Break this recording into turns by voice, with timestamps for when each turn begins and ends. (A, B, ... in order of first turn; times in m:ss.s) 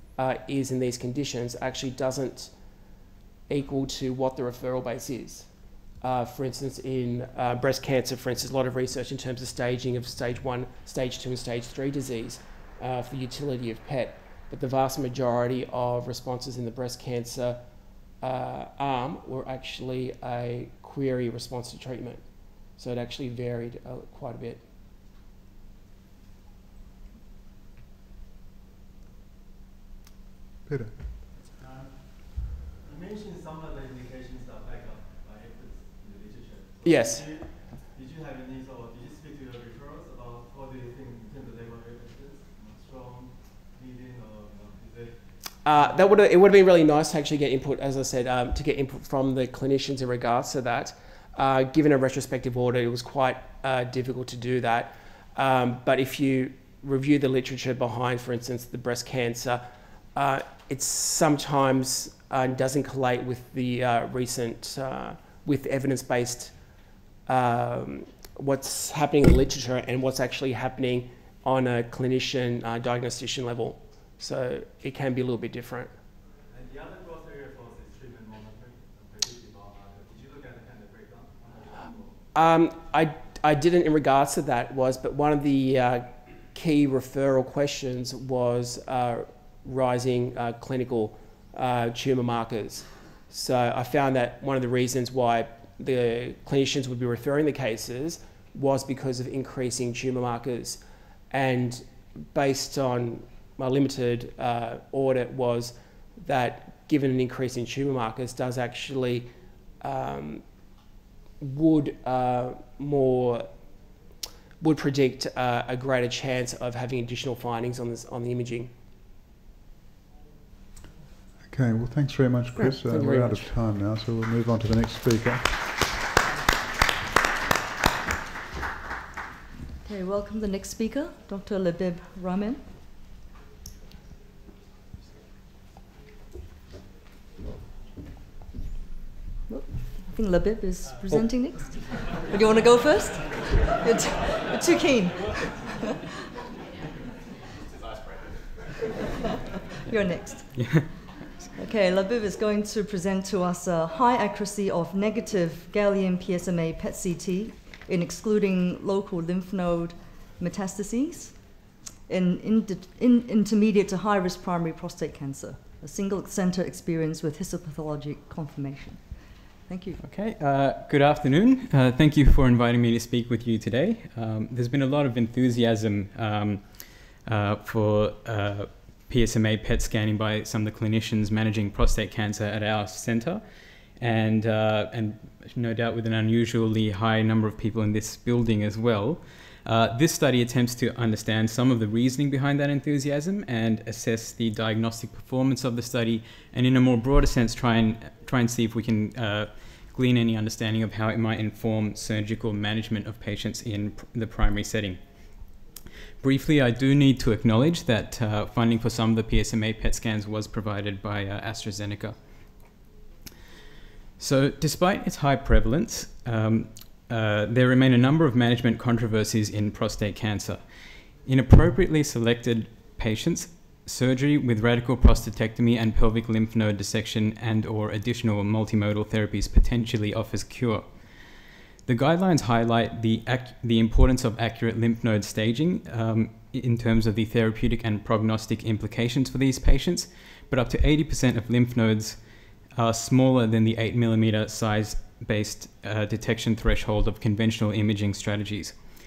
0:00.1-0:02.6 A
0:03.5-0:24.6 A
0:30.7-0:30.9 B
0:31.4-0:46.2 C
0:36.8-0:37.3 A
0:45.6-1:06.6 A
1:07.2-1:15.9 A
1:16.5-1:22.2 C
1:22.3-1:50.5 A
1:51.4-1:53.5 A
1:54.6-1:58.7 A
2:01.4-2:05.6 B
2:02.6-2:03.5 A
2:09.8-2:12.8 D
2:19.5-2:25.7 D
2:29.9-2:30.9 D
2:30.5-2:31.3 E
2:31.6-2:50.0 D
2:50.0-3:25.4 E
3:26.2-3:32.2 E
3:34.2-3:51.2 E
3:51.8-4:08.9 E